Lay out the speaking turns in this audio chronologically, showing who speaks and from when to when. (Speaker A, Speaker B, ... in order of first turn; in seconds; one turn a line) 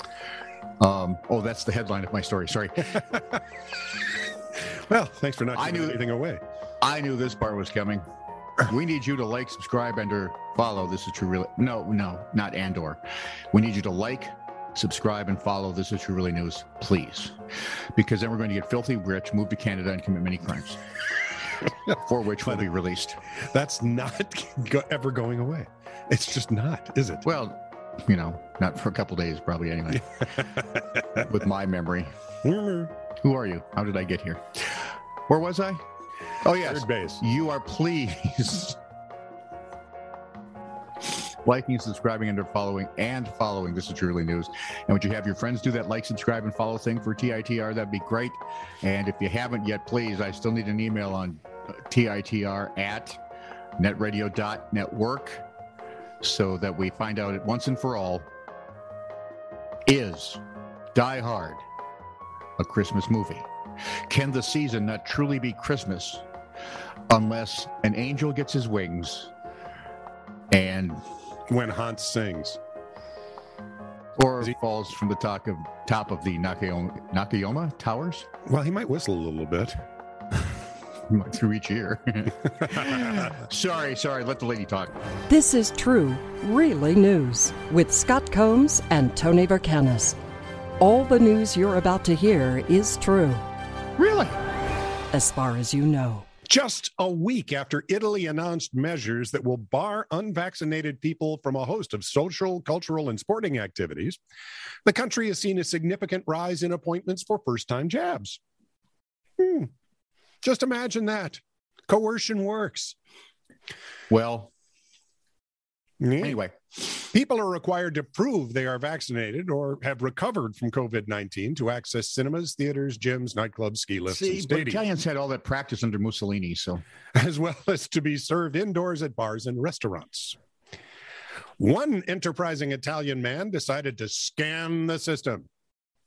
Speaker A: 0.8-3.0
Speaker B: 4.7-6.4
Speaker A: 5.5-6.0
Speaker A: 6.8-8.1
Speaker A: 8.6-13.0
Speaker A: 13.5-17.4
Speaker A: 17.9-20.8
Speaker A: 21.9-23.2
Speaker B: 23.5-27.3
Speaker A: 27.2-30.4
Speaker B: 30.4-31.0
Speaker A: 31.2-32.1
Speaker B: 32.4-32.9
Speaker A: 33.2-35.8
Speaker A: 36.4-38.8
Speaker B: 36.5-37.2
Speaker A: 41.4-53.2
Speaker A: 53.8-55.5
Speaker A: 56.2-58.3
Speaker A: 59.9-60.4
Speaker A: 60.9-61.6
Speaker A: 62.6-63.5
Speaker A: 64.1-66.2
Speaker A: 67.1-69.3
Speaker A: 70.5-71.0
Speaker B: 71.5-72.6
Speaker A: 74.2-78.3
Speaker B: 78.5-79.8
Speaker A: 81.1-84.9
Speaker C: 85.3-90.2
Speaker C: 90.8-93.4
Speaker A: 94.0-94.4
Speaker C: 95.1-96.2
Speaker B: 96.5-104.2
Speaker B: 104.8-108.4
Speaker B: 109.4-109.7
Speaker B: 110.4-113.0
Speaker A: 114.1-114.5
Speaker B: 116.0-116.4
Speaker A: 116.2-116.5
Speaker B: 117.1-124.8
Speaker A: 124.1-126.8
Speaker B: 127.2-130.4
Speaker B: 131.6-135.5